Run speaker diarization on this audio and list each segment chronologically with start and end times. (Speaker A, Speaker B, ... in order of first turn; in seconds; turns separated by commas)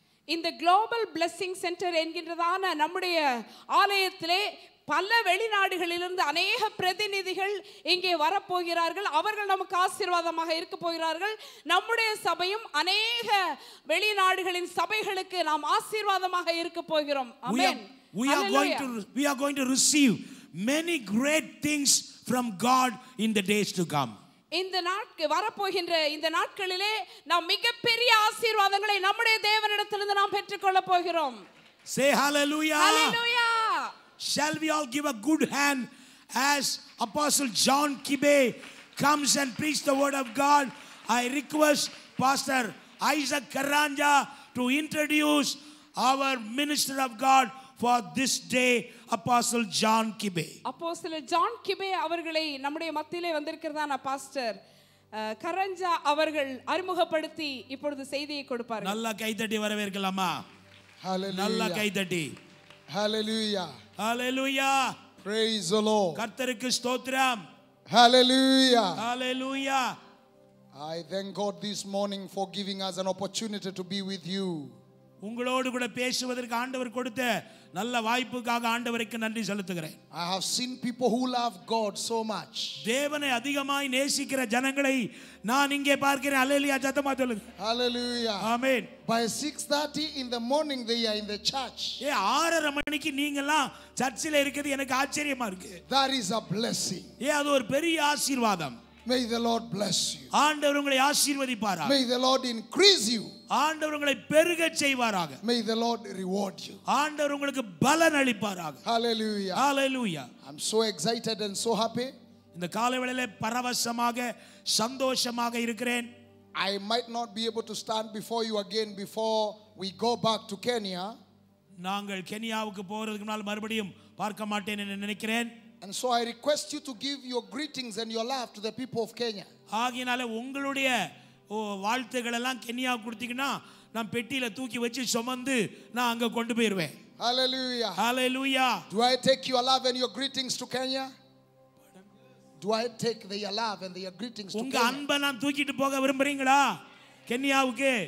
Speaker A: 0.3-18.9, Speaker B: 17.5-24.2, Speaker A: 24.6-31.4, Speaker B: 31.9-33.1, Speaker A: 32.8-33.9, Speaker B: 34.2-50.5, Speaker A: 50.6-54.6, Speaker A: 55.2-59.0, Speaker B: 58.8-60.4, Speaker C: 61.0-61.9, Speaker B: 61.3-62.3, Speaker C: 62.9-63.7, Speaker B: 64.0-64.9, Speaker C: 65.2-66.2, Speaker B: 66.2-67.4, Speaker C: 67.9-69.0, Speaker B: 69.0-69.9, Speaker C: 70.7-74.7, Speaker B: 75.2-80.0, Speaker C: 80.1-82.8, Speaker B: 82.8-87.4, Speaker C: 87.6-88.4, Speaker B: 88.4-88.9, Speaker C: 89.0-92.0, Speaker B: 92.0-95.8, Speaker C: 95.9-97.1, Speaker B: 97.2-98.8, Speaker C: 99.0-100.3, Speaker B: 100.3-101.9, Speaker C: 101.8-103.3, Speaker B: 103.5-105.4, Speaker C: 105.4-106.8, Speaker B: 106.9-108.8, Speaker C: 108.8-109.6, Speaker B: 109.5-110.3, Speaker C: 110.4-112.1, Speaker B: 112.5-116.1, Speaker C: 116.6-121.2, Speaker B: 121.8-125.5, Speaker C: 125.8-129.5, Speaker B: 129.7-130.9, Speaker B: 131.5-136.9, Speaker C: 137.2-138.0, Speaker B: 138.0-138.8, Speaker C: 138.9-141.1, Speaker C: 142.6-145.0, Speaker B: 144.5-146.7, Speaker B: 147.3-148.0